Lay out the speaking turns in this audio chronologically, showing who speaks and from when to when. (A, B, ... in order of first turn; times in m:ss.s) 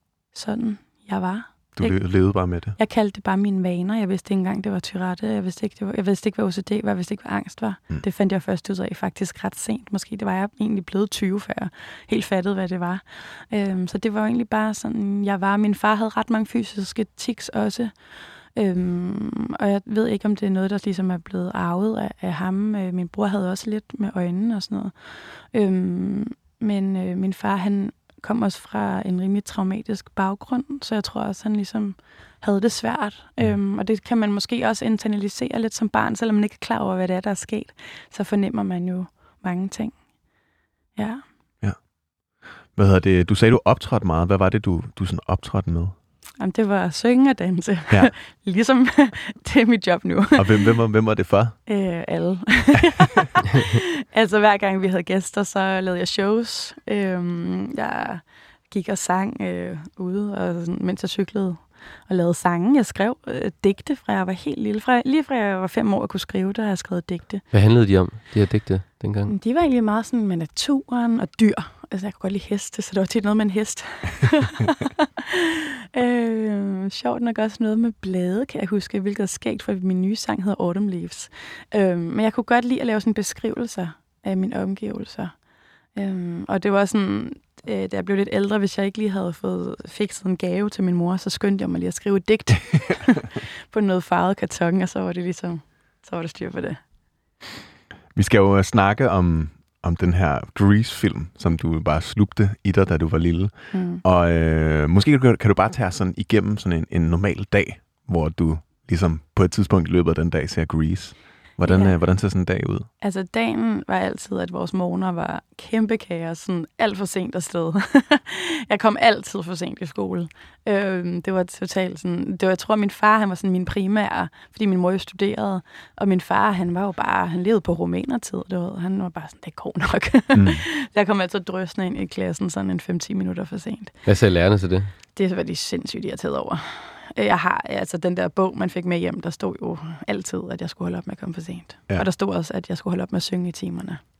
0:00.3-0:40.0 A
0:01.8-0:02.8 B
0:41.0-0:41.2 A
0:42.7-0:46.0 B
0:46.4-0:50.7 A
0:50.4-0:51.6 B
0:51.7-1:07.4 A
1:07.5-1:09.3 C
1:09.3-1:25.3 A
1:26.0-1:36.8 A
1:38.2-1:52.9 B
1:43.7-1:44.0 A
1:51.7-1:52.0 A
1:53.0-2:14.0 A
2:10.4-2:10.6 B
2:14.0-2:14.9 C
2:15.2-2:24.0 A